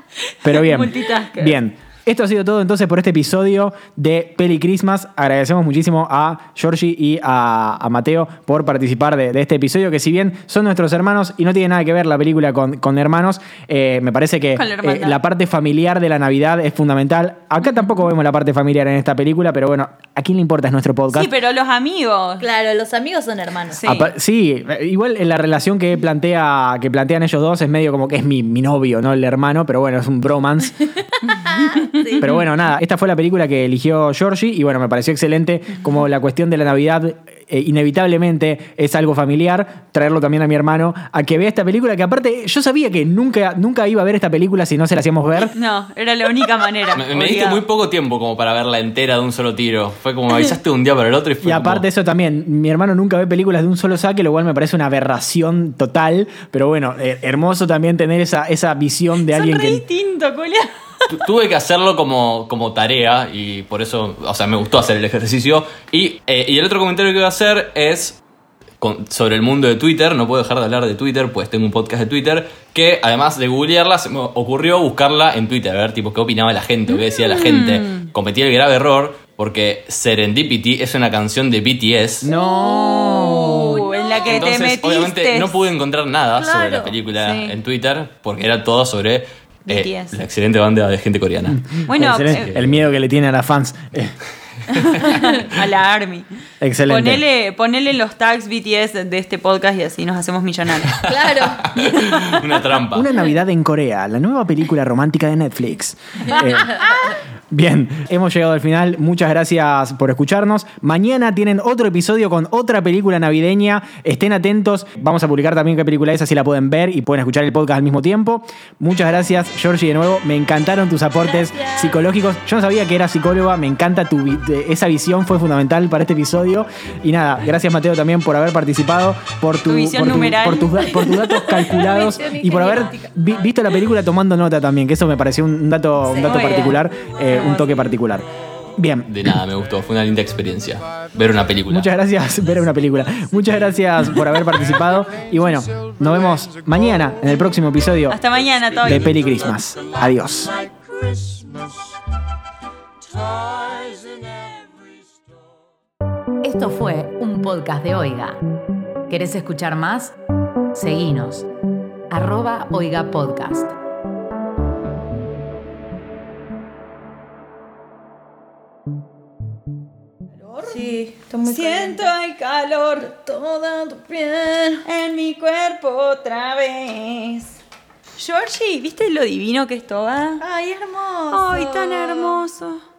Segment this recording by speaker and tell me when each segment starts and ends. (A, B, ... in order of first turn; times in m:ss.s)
0:00.4-0:21.3 A
0:00.5-0:01.6 B
0:14.5-0:15.2 B
0:17.6-0:17.9 B
0:21.1-0:22.4 B
0:22.4-0:23.8 C
0:23.7-0:24.1 B
0:23.8-0:30.8 A
0:31.4-0:32.3 C
0:31.4-0:32.4 B
0:32.2-0:45.5 A
0:45.5-0:47.6 B
0:46.9-0:51.8 D
0:51.4-0:59.8 A
0:59.3-1:00.7 B
1:01.1-1:08.2 D
1:08.8-1:22.3 D
1:16.9-1:18.1 B
1:22.2-1:23.8 A
1:22.3-1:24.4 C
1:22.7-1:25.6 B
1:24.3-1:31.8 D
1:26.3-1:27.0 C
1:27.2-1:27.6 B
1:29.7-1:30.2 B
1:31.5-1:34.1 A
1:31.9-1:32.5 B
1:32.3-1:32.8 D
1:34.8-1:36.3 B
1:36.6-1:37.2 A
1:36.9-1:41.0 B
1:40.9-1:43.1 D
1:41.0-1:41.7 C
1:41.7-1:42.4 B
1:42.9-1:46.9 A
1:46.3-1:47.2 B
1:47.5-2:18.2 A
2:01.5-2:01.8 B
2:09.7-2:11.4 B
2:11.5-2:13.1 C
2:16.1-2:17.9 B
2:18.8-2:19.3 A
2:19.1-2:21.9 D
2:21.7-2:28.2 A
2:28.1-2:29.1 B
2:28.8-2:30.5 A
2:36.4-2:38.4 E
2:39.1-2:40.2 E
2:40.7-2:41.5 E
2:42.1-2:43.7 E
2:50.5-2:50.8 B
2:50.6-2:52.1 C
2:51.4-2:53.1 B
2:53.0-2:54.8 C
2:54.8-2:57.6 B
2:58.2-3:00.4 B
3:00.4-3:02.4 C
3:01.3-3:02.8 B